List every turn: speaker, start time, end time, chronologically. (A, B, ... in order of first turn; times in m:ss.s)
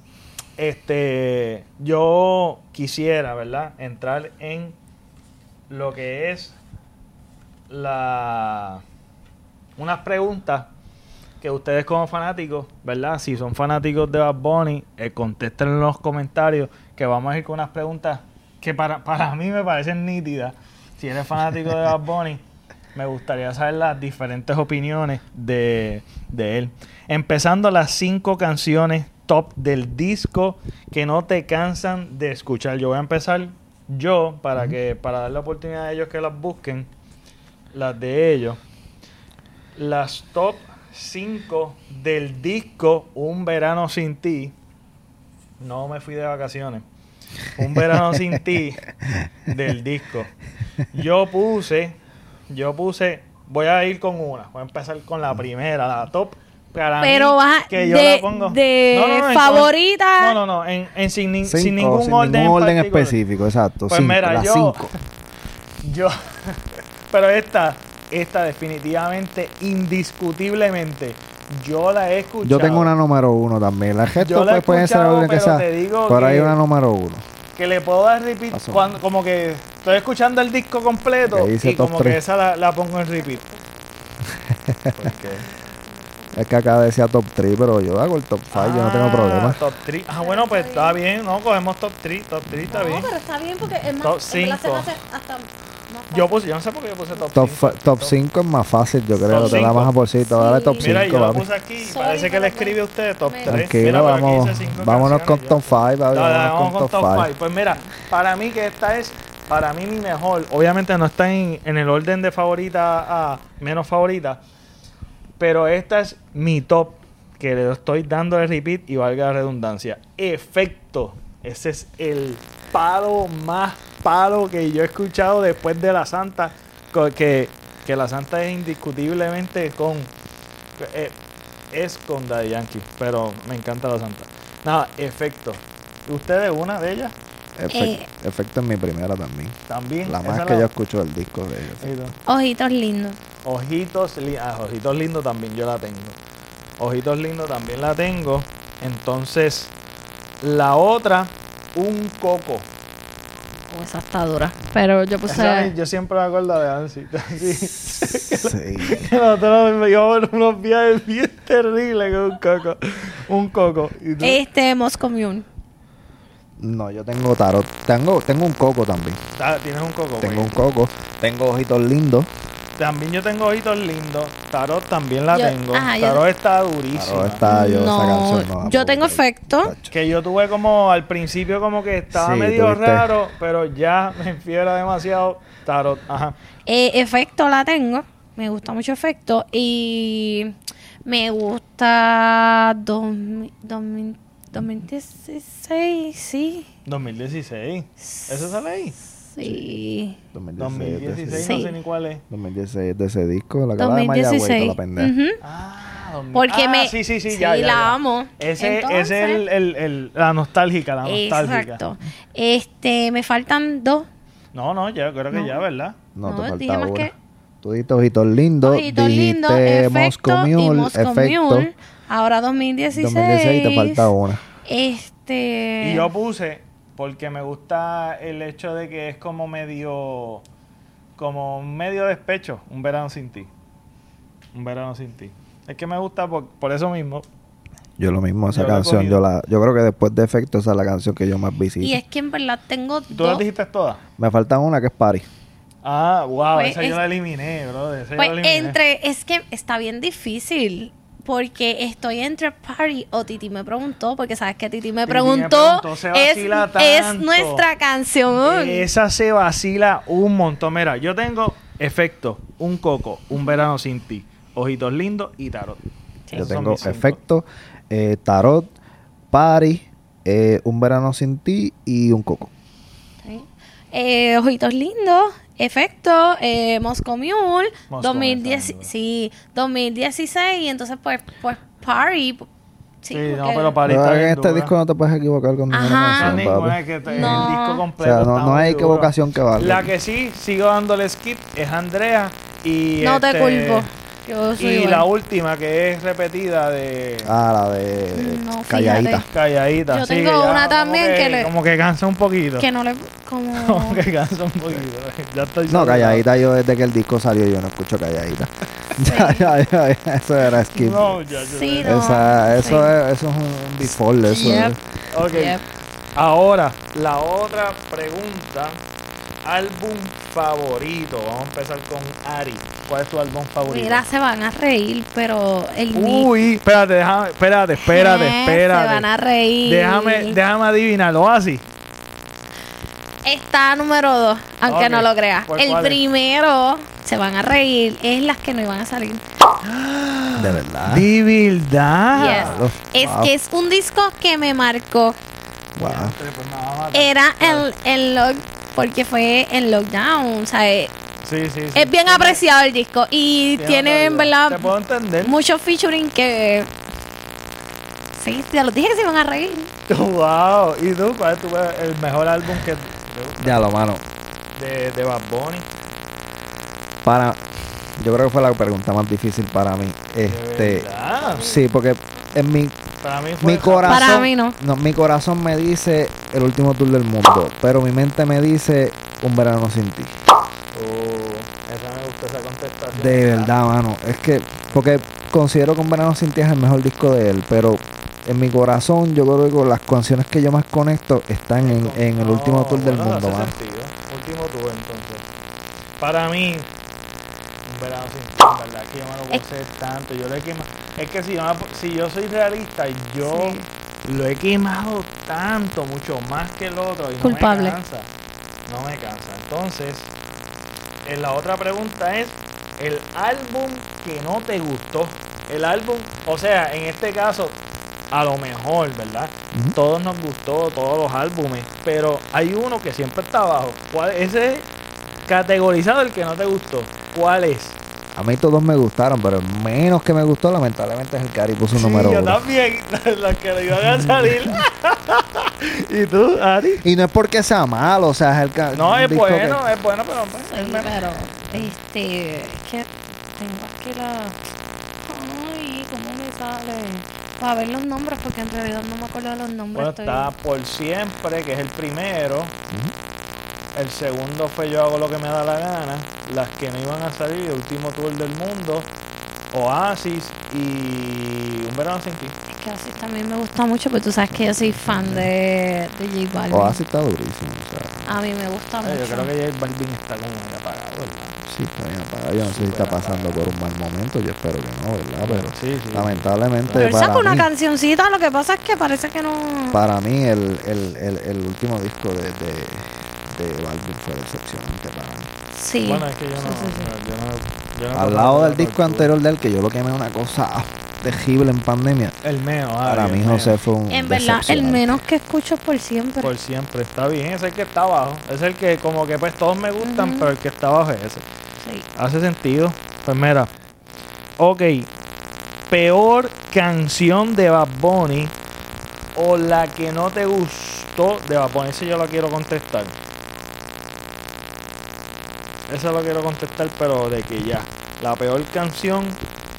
0:00.6-0:04.8 A
0:05.7-0:06.6 A
0:07.7-0:08.8 A
0:09.8-0:10.7 A
0:11.4-0:22.4 A
0:23.0-0:36.9 A
0:37.7-0:38.6 A
0:39.8-0:44.5 A
0:45.6-0:46.8 A
0:47.6-0:48.9 A
0:49.4-0:50.3 A
0:50.9-0:52.0 A
0:52.5-1:03.2 A
0:57.0-1:00.4 B
1:01.4-1:04.9 C
1:03.9-1:04.9 A
1:05.8-1:12.9 A
1:12.4-1:17.2 C
1:14.1-1:16.6 A
1:17.6-1:23.4 A
1:18.5-1:18.9 C
1:21.2-1:22.2 C
1:24.5-1:25.1 C
1:24.9-1:25.4 A
1:26.4-1:29.6 C
1:28.5-1:33.1 A
1:30.2-1:31.0 B
1:32.7-1:36.4 B
1:34.0-1:34.9 A
1:36.1-1:38.1 A
1:37.3-1:41.4 C
1:39.2-1:39.9 A
1:39.3-1:41.0 B
1:40.8-1:54.4 A
1:41.8-1:44.1 B
1:43.5-1:47.3 C
1:55.4-2:10.1 A
2:10.8-2:11.2 A
2:11.7-2:17.1 A
2:17.6-2:21.9 C
2:17.7-2:18.1 B
2:19.7-2:20.7 A
2:21.8-2:22.2 A
2:22.2-2:23.2 B
2:23.4-2:26.2 A
2:26.8-2:29.7 A
2:30.4-2:32.7 A
2:33.7-2:35.7 B
2:35.3-2:44.4 A
2:38.3-2:39.0 C
2:44.2-2:45.4 B
2:46.6-2:49.2 C
2:49.3-2:50.6 A
2:50.2-2:52.3 C
2:52.8-2:57.4 A
2:55.3-2:56.2 B
2:56.9-2:59.9 C
2:57.4-2:59.7 B
2:59.9-3:06.4 A
3:02.1-3:03.1 C
3:06.7-3:10.5 B
3:11.0-3:16.7 B
3:16.8-3:19.6 A
3:18.1-3:18.6 B
3:19.3-3:20.2 B
3:20.3-3:21.6 C
3:20.6-3:22.2 A
3:21.3-3:21.7 B
3:22.3-3:25.1 C
3:23.8-3:25.4 B
3:25.4-3:31.8 A
3:26.3-3:29.4 B
3:31.0-3:34.1 B
3:34.5-3:36.0 A
3:35.3-3:35.6 B
3:36.1-3:37.1 C
3:36.2-3:37.1 B
3:37.6-3:41.7 C
3:38.6-3:46.1 B
3:42.9-3:44.4 C
3:45.8-3:50.4 A
3:51.2-3:53.5 A
3:54.5-3:57.2 A
3:58.0-4:02.0 C
3:58.5-3:59.2 A
4:01.8-4:03.4 B
4:03.1-4:04.0 A
4:04.2-4:05.3 C
4:05.8-4:08.8 A
4:06.5-4:07.0 B
4:08.2-4:18.9 B
4:15.0-4:17.6 A
4:18.4-4:27.2 A
4:26.3-4:26.5 B
4:26.3-4:28.7 C
4:29.3-4:32.5 C
4:33.2-4:42.5 B
4:37.9-4:38.9 A
4:43.0-4:43.8 B
4:43.1-4:44.7 A
4:43.8-4:49.9 C
4:45.7-4:46.5 B
4:46.2-4:53.9 A
4:47.1-4:47.8 B
4:53.0-4:55.1 B
4:54.6-4:57.3 A
4:57.2-4:59.2 C
4:58.1-4:59.2 B
4:59.3-5:02.7 A
4:59.9-5:01.5 B
5:02.6-5:04.0 B
5:03.6-5:06.2 A
5:05.7-5:11.2 C
5:09.0-5:09.5 B
5:10.7-5:12.0 A
5:11.4-5:12.9 B
5:11.8-5:14.8 C
5:14.2-5:14.8 B
5:15.1-5:15.6 A
5:15.3-5:15.6 B
5:16.2-5:18.8 A
5:19.4-5:24.1 A
5:23.6-5:26.3 B
5:25.9-5:29.1 A
5:27.8-5:30.4 B
5:29.6-5:31.6 A
5:33.2-5:39.2 B
5:34.6-5:36.0 A
5:39.6-5:42.7 A
5:40.4-5:41.1 C
5:42.1-5:45.2 B
5:42.2-5:43.3 C
5:45.8-5:46.2 C
5:45.8-5:47.7 A
5:46.9-5:50.9 B
5:51.2-5:52.4 A
5:51.7-5:56.7 B
5:53.6-5:55.4 A
5:58.2-5:59.7 B
5:59.9-6:03.7 A
6:03.4-6:04.0 C
6:04.6-6:05.7 A
6:07.0-6:07.4 C
6:08.0-6:12.8 C
6:10.2-6:11.6 A
6:13.0-6:14.3 A
6:13.4-6:20.1 C
6:13.8-6:14.6 B
6:20.7-6:23.7 A
6:22.9-6:33.6 C
6:24.7-6:25.1 A
6:31.6-6:35.2 A
6:36.0-6:36.7 A
6:37.7-6:48.1 A
6:43.2-6:43.7 B
6:47.2-6:47.8 B
6:48.7-6:50.1 A
6:51.0-6:57.6 A
6:58.1-7:04.7 A
7:05.2-7:07.8 A
7:08.1-7:12.4 C
7:11.7-7:16.8 A
7:14.0-7:14.4 C
7:16.8-7:19.6 C
7:18.7-7:21.7 A
7:20.5-7:24.4 B
7:25.1-7:30.3 B
7:29.7-7:32.6 A
7:33.8-7:38.9 A
7:39.5-7:42.3 A
7:42.5-7:46.8 B
7:44.3-7:45.3 C
7:46.5-7:48.2 C
7:48.1-7:49.3 B
7:48.8-7:51.3 A
7:51.5-7:57.5 C
7:52.4-7:53.5 A
7:55.2-7:56.9 A
7:56.8-7:59.8 B
7:59.7-8:05.3 C
8:05.5-8:06.9 B
8:05.8-8:09.1 A
8:07.9-8:12.2 C
8:12.2-8:13.6 A
8:12.8-8:15.0 C
8:13.9-8:16.3 B
8:16.2-8:21.2 A
8:19.8-8:20.3 B
8:21.6-8:21.8 B
8:21.9-8:23.5 A
8:24.4-8:24.9 A
8:25.7-8:28.3 A
8:29.2-8:33.0 A
8:35.7-8:39.2 A